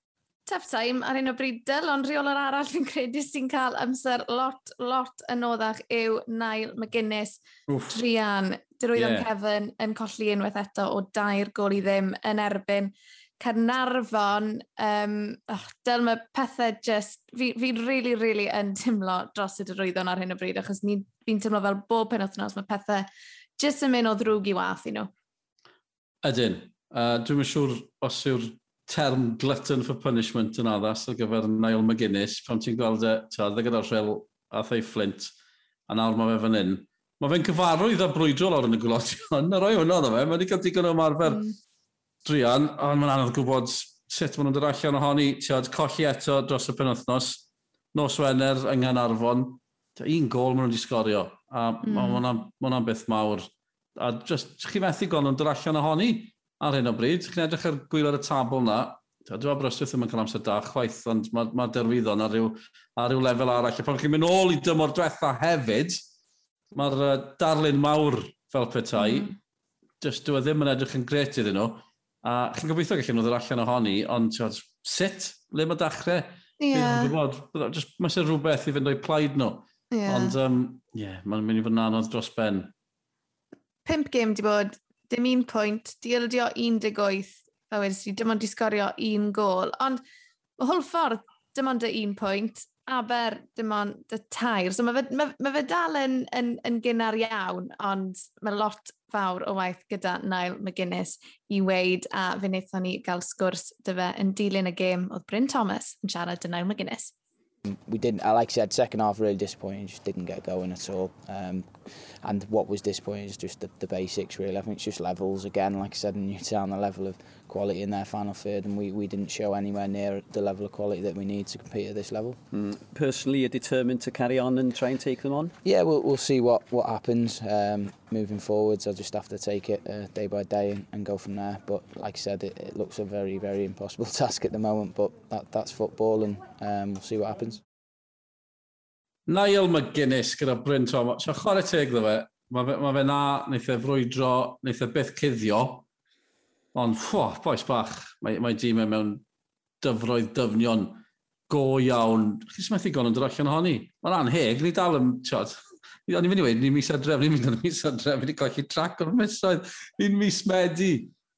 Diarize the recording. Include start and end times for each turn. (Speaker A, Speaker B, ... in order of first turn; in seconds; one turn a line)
Speaker A: 0.5-23.1
Speaker B: 7.7-8.0
Speaker B: 8.9-9.3
Speaker A: 23.6-25.1
Speaker B: 26.2-35.3
Speaker B: 35.9-41.5
Speaker A: 41.2-41.5
Speaker B: 42.2-47.4
Speaker B: 47.9-66.0
Speaker A: 51.8-52.2
Speaker B: 66.7-69.3
Speaker A: 69.0-69.3
Speaker B: 70.0-82.7
Speaker A: 76.6-77.1
Speaker A: 79.9-80.3
Speaker A: 83.8-90.0
Speaker A: 90.6-107.1
Speaker C: 107.7-122.4
Speaker D: 122.5-125.5
Speaker C: 125.6-137.6
Speaker B: 139.3-145.8
Speaker B: 146.7-149.2
Speaker B: 149.8-161.1